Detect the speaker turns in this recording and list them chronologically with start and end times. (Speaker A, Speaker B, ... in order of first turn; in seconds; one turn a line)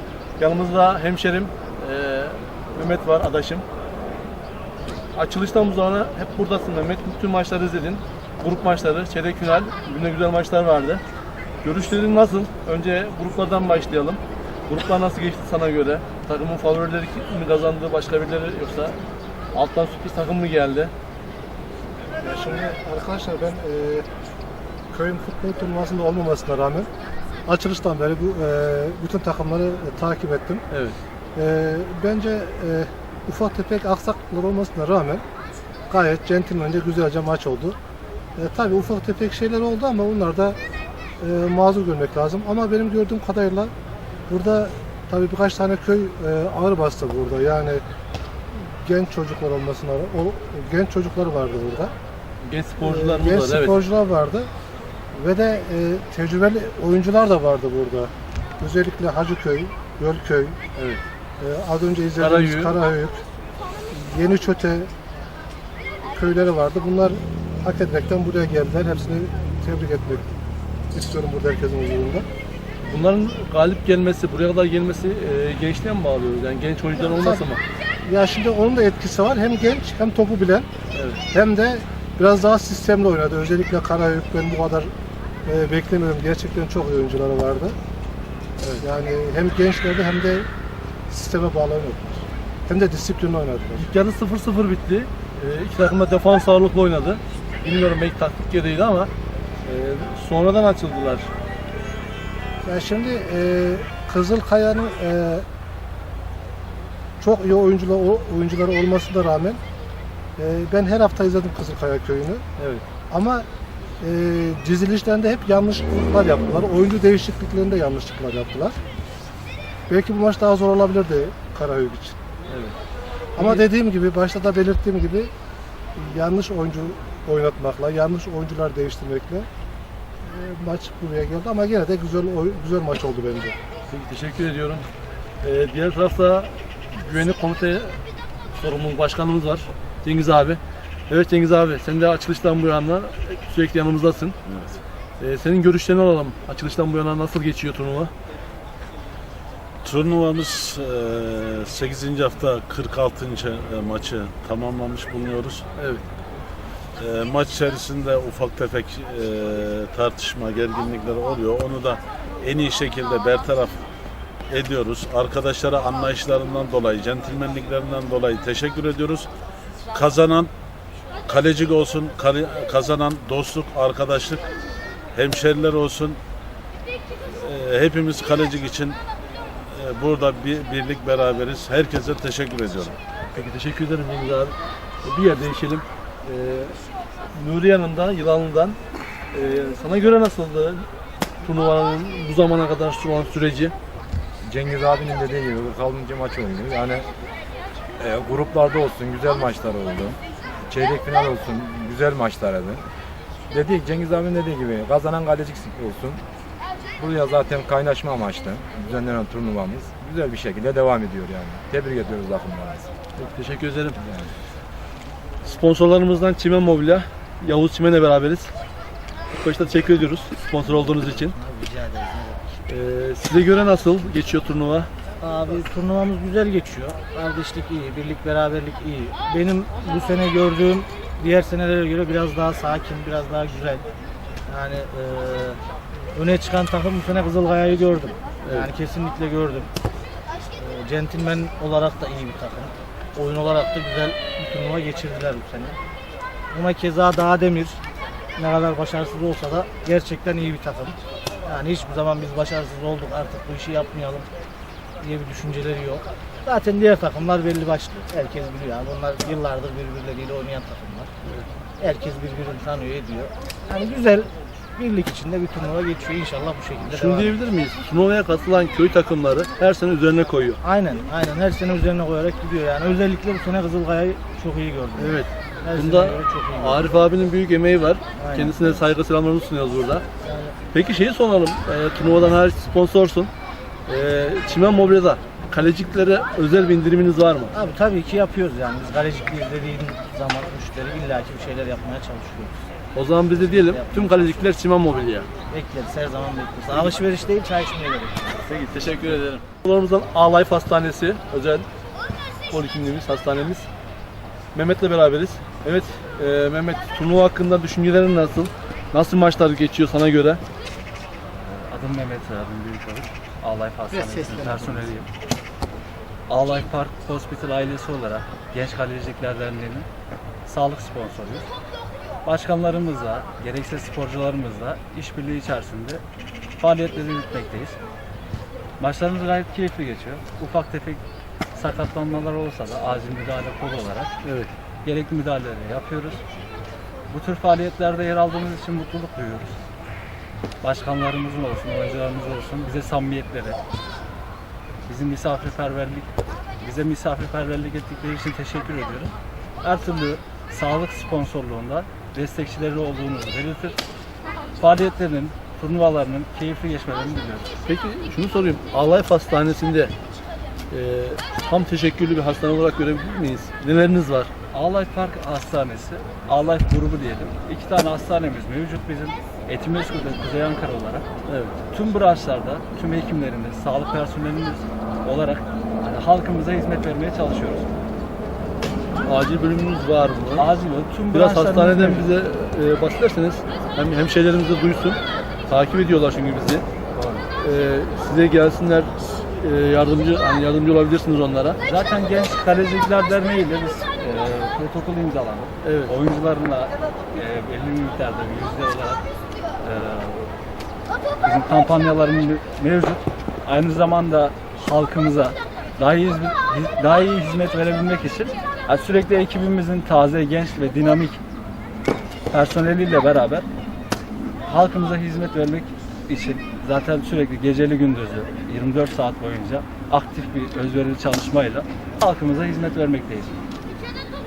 Speaker A: 0.4-3.6
Speaker A: 5.1-11.0
Speaker A: 11.6-18.9
Speaker A: 19.5-20.9
Speaker B: 22.2-24.1
Speaker B: 24.9-26.9
Speaker B: 27.4-30.6
Speaker A: 30.7-30.9
Speaker B: 31.4-35.2
Speaker B: 35.9-37.8
Speaker B: 38.4-40.6
Speaker B: 41.2-43.7
Speaker B: 44.3-47.8
Speaker B: 48.5-51.9
Speaker A: 52.4-53.8
Speaker B: 52.8-54.5
Speaker B: 55.1-60.6
Speaker B: 61.4-63.2
Speaker A: 62.2-62.8
Speaker B: 63.9-64.9
Speaker B: 66.1-70.3
Speaker B: 70.9-72.2
Speaker A: 72.8-77.6
Speaker B: 77.0-77.5
Speaker B: 78.0-80.7
Speaker A: 80.9-81.2
Speaker B: 81.3-84.9
Speaker B: 85.4-87.8
Speaker B: 88.8-90.5
Speaker B: 91.1-93.9
Speaker A: 93.8-99.1
Speaker A: 99.6-101.3
Speaker B: 102.6-105.5
Speaker B: 107.2-109.6
Speaker B: 110.4-112.4
Speaker A: 112.6-112.8
Speaker B: 113.1-113.5
Speaker B: 114.0-118.8
Speaker B: 119.9-122.2
Speaker A: 122.5-122.7
Speaker B: 123.3-125.3
Speaker A: 123.4-123.6
Speaker B: 126.0-129.5
Speaker B: 130.2-133.6
Speaker A: 133.9-134.9
Speaker A: 135.4-138.0
Speaker A: 138.5-140.6
Speaker A: 141.1-144.3
Speaker C: 144.4-144.8
Speaker A: 145.2-148.1
Speaker C: 149.8-155.6
Speaker A: 155.8-156.0
Speaker C: 157.0-163.8
Speaker C: 164.5-169.3
Speaker C: 169.9-170.5
Speaker C: 171.2-174.4
Speaker C: 175.1-176.2
Speaker C: 177.2-179.0
Speaker C: 179.7-183.0
Speaker A: 183.3-186.8
Speaker A: 187.3-188.8
Speaker A: 189.3-190.8
Speaker A: 191.4-193.7
Speaker D: 194.4-197.1
Speaker D: 198.0-202.9
Speaker D: 203.5-206.2
Speaker D: 206.9-212.9
Speaker A: 213.2-214.0
Speaker D: 213.9-214.3
Speaker A: 215.4-218.5
Speaker A: 219.3-221.3
Speaker E: 220.8-222.6
Speaker A: 222.7-224.9
Speaker E: 225.2-233.8
Speaker E: 234.5-235.6
Speaker E: 236.1-239.7
Speaker A: 238.4-238.7
Speaker E: 240.6-245.8
Speaker E: 246.5-247.8
Speaker E: 248.3-254.3
Speaker E: 255.0-261.1
Speaker E: 261.8-267.3
Speaker A: 266.8-270.6
Speaker E: 270.6-276.9
Speaker A: 274.9-280.0
Speaker E: 278.1-278.7
Speaker E: 280.2-280.6
Speaker A: 280.7-283.3
Speaker A: 283.9-287.6
Speaker E: 287.5-292.6
Speaker A: 292.9-295.3
Speaker E: 293.3-294.4
Speaker E: 295.5-298.3
Speaker A: 298.4-301.6
Speaker A: 302.5-303.7
Speaker A: 304.5-310.4
Speaker F: 311.3-315.1
Speaker E: 313.9-314.8
Speaker F: 316.3-319.9
Speaker F: 320.4-321.5
Speaker F: 322.2-326.0
Speaker F: 326.6-327.8
Speaker F: 328.8-331.0
Speaker F: 331.5-334.1
Speaker A: 334.2-334.5
Speaker F: 334.8-336.2
Speaker F: 337.1-339.6
Speaker F: 340.6-343.6
Speaker F: 344.9-346.1
Speaker F: 346.6-353.8
Speaker F: 354.6-357.5
Speaker A: 357.6-359.9
Speaker A: 360.7-364.3
Speaker F: 364.5-371.1
Speaker A: 371.3-371.5
Speaker F: 371.7-377.7
Speaker A: 379.0-380.5
Speaker F: 380.4-382.1
Speaker A: 381.1-386.6
Speaker F: 386.9-387.3
Speaker A: 387.4-391.6
Speaker F: 391.6-399.0
Speaker A: 395.6-395.9
Speaker F: 399.6-400.3
Speaker F: 401.2-411.2
Speaker F: 412.3-413.4
Speaker F: 414.4-423.4